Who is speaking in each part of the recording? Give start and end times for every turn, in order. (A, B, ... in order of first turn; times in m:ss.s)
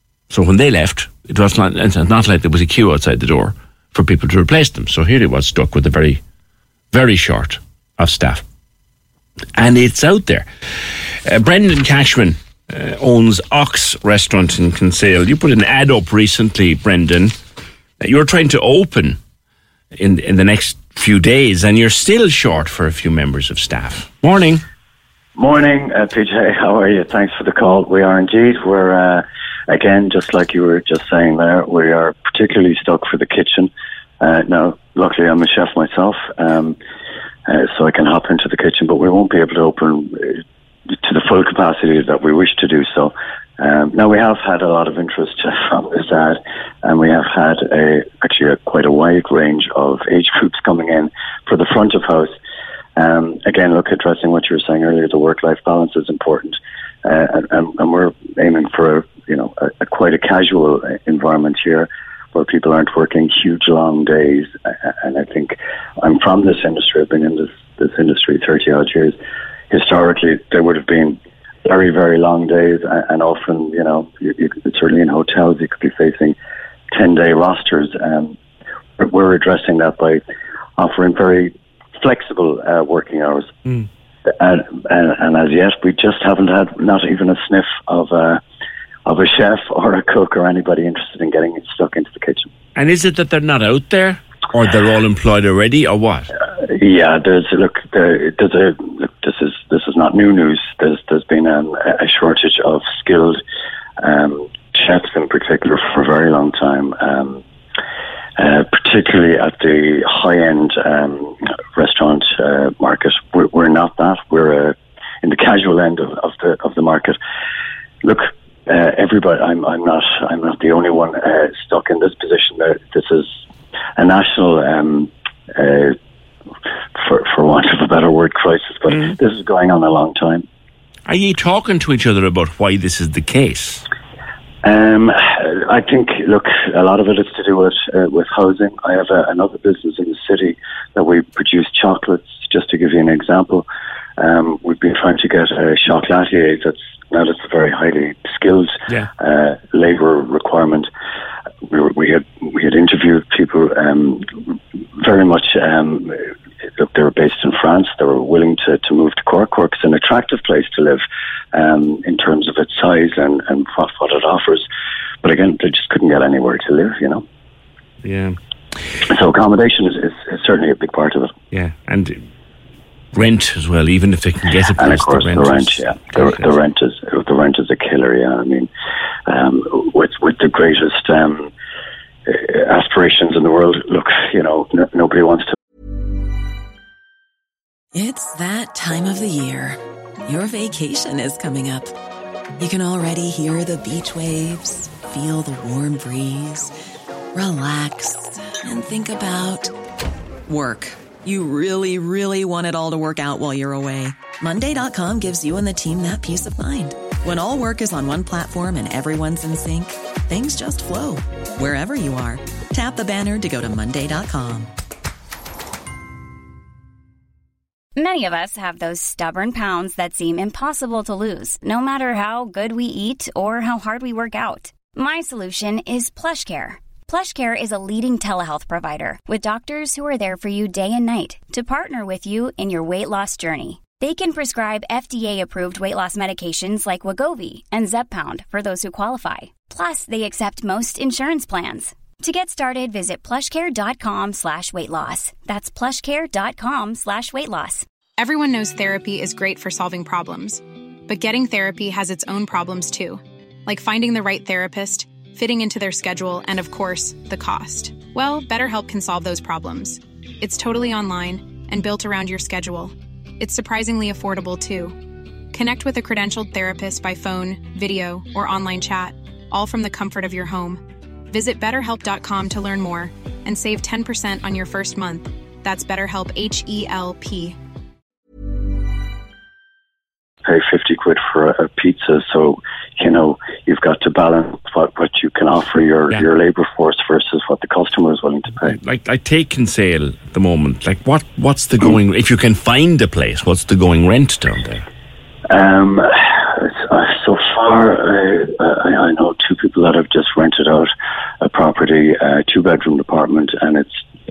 0:00.3-0:06.2 A
0:06.9-0:08.4 A
0:09.6-0:10.5 A
0:11.3-0:17.4 A
0:18.0-0:19.2 A
0:20.0-0:24.6 A
0:25.4-0:36.8 B
0:37.5-0:52.3 B
0:53.0-1:09.2 B
1:09.7-1:16.4 B
1:16.9-1:18.4 B
1:19.0-1:20.2 B
1:20.8-1:23.5 B
1:24.3-1:28.4 B
1:29.1-1:32.5 B
1:32.8-1:36.3 A
1:36.5-1:43.4 B
1:44.0-1:47.4 B
1:48.4-1:57.2 B
1:58.0-2:03.4 B
2:04.0-2:05.9 B
2:07.0-2:10.4 B
2:11.1-2:13.9 A
2:14.6-2:23.6 B
2:24.2-2:30.9 B
2:31.7-2:44.7 B
2:45.2-2:47.2 B
2:48.0-2:48.4 A
2:49.1-2:51.3 B
2:51.5-2:52.2 A
2:53.1-2:56.5 A
2:54.8-2:58.7 B
2:59.3-3:01.5 B
3:02.3-3:05.5 B
3:07.9-3:11.9 C
3:12.6-3:16.8 C
3:17.3-3:19.7 C
3:20.5-3:34.7 C
3:39.3-3:40.2 D
3:40.9-3:54.1 D
3:55.1-3:55.7 D
3:56.6-3:57.8 D
3:58.4-4:04.7 D
4:05.2-4:05.5 D
4:06.2-4:07.8 D
4:08.2-4:25.0 E
4:25.5-4:37.6 E
4:40.4-4:48.8 B
4:48.6-4:54.9 A
4:55.5-5:00.9 B
5:01.4-5:04.0 B